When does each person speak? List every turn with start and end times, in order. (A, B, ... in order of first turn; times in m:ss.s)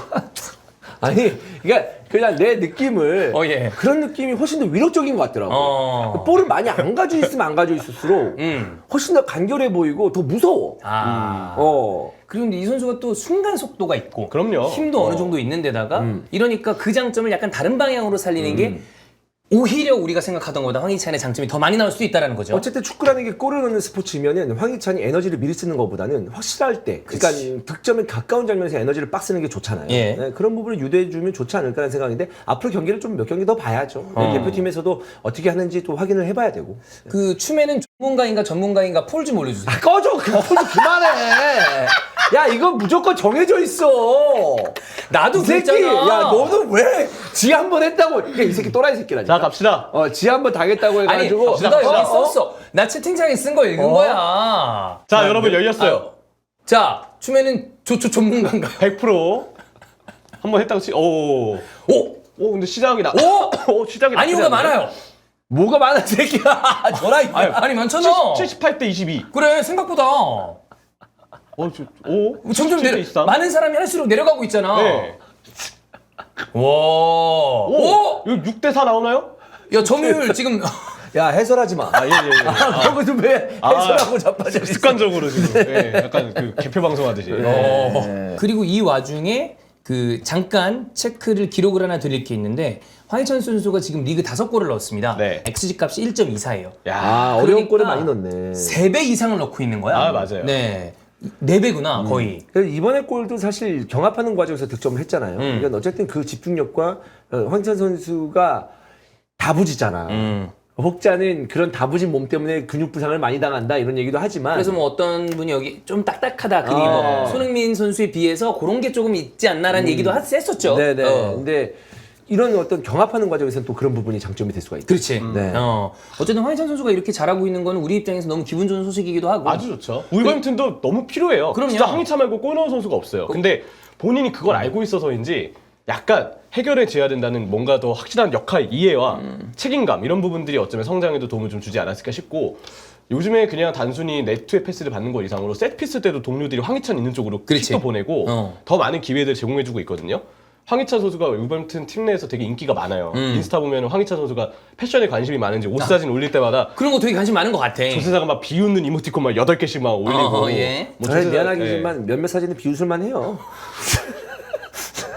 0:01.0-0:10.8 A
0:03.3-0:03.8 B
0:05.5-0:06.4 B
0:08.4-0:08.8 B
0:10.8-0:18.8 B
0:11.0-0:11.5 C
0:11.5-0:12.1 A
0:14.3-0:15.3 C
0:15.9-0:16.2 A
0:18.4-0:18.8 A
0:19.5-0:22.6 B
0:22.5-0:37.0 A
0:27.1-0:27.5 B
0:29.9-0:30.2 B
0:34.2-0:34.6 B
0:34.2-0:34.7 C
0:37.0-0:41.2 B
0:39.6-0:44.8 A
0:45.0-0:46.6 B
0:45.3-0:52.4 A
0:49.2-0:49.9 C
0:50.9-0:56.1 B
0:51.4-0:52.1 C
0:53.8-0:54.2 C
0:55.1-0:56.1 C
0:56.6-0:58.8 B
0:58.8-0:59.5 C
1:00.4-1:01.7 C
1:01.8-1:02.2 B
1:02.4-1:04.8 C
1:03.1-1:05.0 B
1:05.5-1:07.6 A
1:06.9-1:08.5 B
1:07.3-1:09.3 C
1:09.3-1:10.6 B
1:11.6-1:13.4 C
1:12.4-1:15.1 B
1:14.7-1:15.2 C
1:16.5-1:18.2 B
1:17.6-1:19.3 C
1:19.7-1:21.0 B
1:19.8-1:20.4 A
1:21.1-1:26.6 A
1:21.9-1:23.0 C
1:23.6-1:27.8 C
1:27.3-1:28.4 A
1:27.4-1:42.4 B
1:35.1-1:35.4 C
1:36.8-1:37.3 C
1:37.0-1:38.8 A
1:39.9-1:40.6 C
1:42.0-1:48.7 A
1:45.4-1:45.7 B
1:49.4-1:54.8 A
1:50.1-1:50.5 B
1:54.5-2:01.4 B
1:56.6-1:57.5 A
1:56.8-1:57.4 C
1:59.7-2:05.7 A
2:04.9-2:10.4 B
2:05.2-2:05.6 C
2:09.4-2:36.8 C
2:11.5-2:12.1 B
2:19.2-2:19.5 B
2:27.5-2:28.6 B
2:33.1-2:33.5 B
2:36.7-2:38.2 B
2:37.9-2:41.9 C
2:40.0-2:41.0 B
2:41.0-2:44.6 A